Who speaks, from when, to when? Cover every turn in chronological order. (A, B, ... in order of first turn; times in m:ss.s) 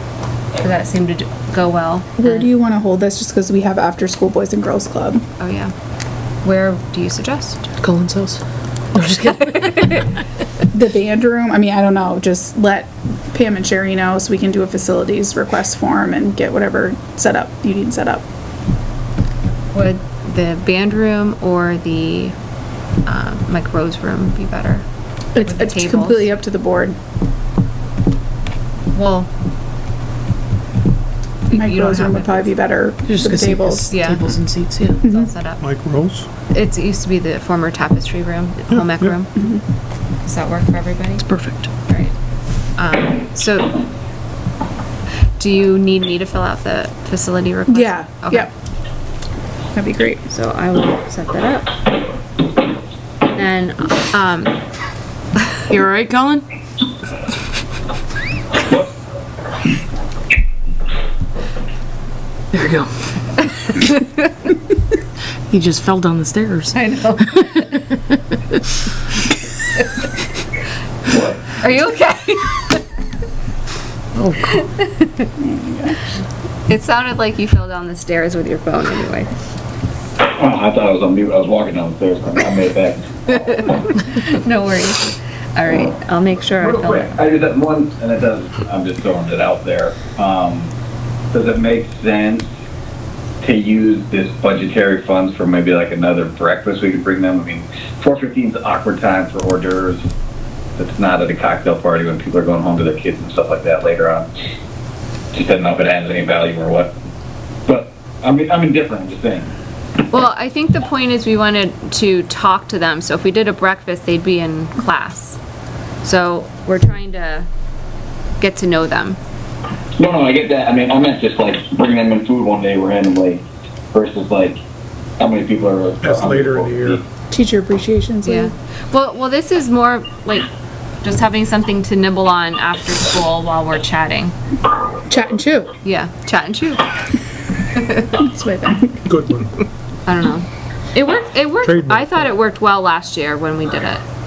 0:00.6-0:02.5 A
0:02.2-0:05.2 B
0:05.4-0:05.7 A
0:06.4-0:07.7 A
0:07.8-0:08.4 C
0:08.9-0:10.1 C
0:10.7-0:18.2 B
0:19.7-0:22.3 A
0:23.0-0:24.8 A
0:25.3-0:27.0 B
0:25.4-0:26.3 A
0:28.9-0:29.3 A
0:31.5-0:32.5 A
0:31.5-0:33.9 B
0:33.0-0:35.0 C
0:33.9-0:34.2 A
0:35.0-0:35.6 A
0:35.0-0:35.3 B
0:35.6-0:36.3 D
0:36.5-0:39.3 A
0:38.7-0:39.2 D
0:39.4-0:39.6 B
0:40.2-0:41.2 A
0:41.2-0:41.7 C
0:41.8-0:42.1 A
0:42.8-0:43.8 A
0:45.4-0:48.5 A
0:47.7-0:48.5 B
0:49.7-0:50.2 B
0:50.3-0:51.8 A
0:53.3-0:54.6 A
0:55.7-0:56.4 C
1:02.5-1:03.9 C
1:03.6-1:04.2 A
1:05.5-1:08.1 C
1:06.7-1:07.9 A
1:11.1-1:11.6 E
1:11.5-1:12.8 A
1:14.1-1:14.7 C
1:14.4-1:15.3 A
1:15.4-1:16.0 B
1:16.7-1:19.3 A
1:20.2-1:23.7 E
1:23.4-1:27.2 A
1:26.6-1:30.7 E
1:31.3-1:32.5 E
1:33.4-1:40.0 E
1:40.8-1:44.3 E
1:45.3-1:46.9 E
1:47.7-1:49.5 E
1:50.1-1:55.4 A
1:56.0-1:57.5 A
1:58.4-1:59.2 A
2:00.0-2:04.6 E
2:05.2-2:07.0 E
2:06.0-2:07.0 D
2:07.3-2:08.5 B
2:08.2-2:10.5 A
2:11.0-2:14.3 A
2:15.1-2:15.7 B
2:15.8-2:16.9 A
2:17.7-2:18.2 A
2:18.2-2:19.0 B
2:19.1-2:19.5 D
2:20.0-2:24.0 A
2:21.6-2:22.3 D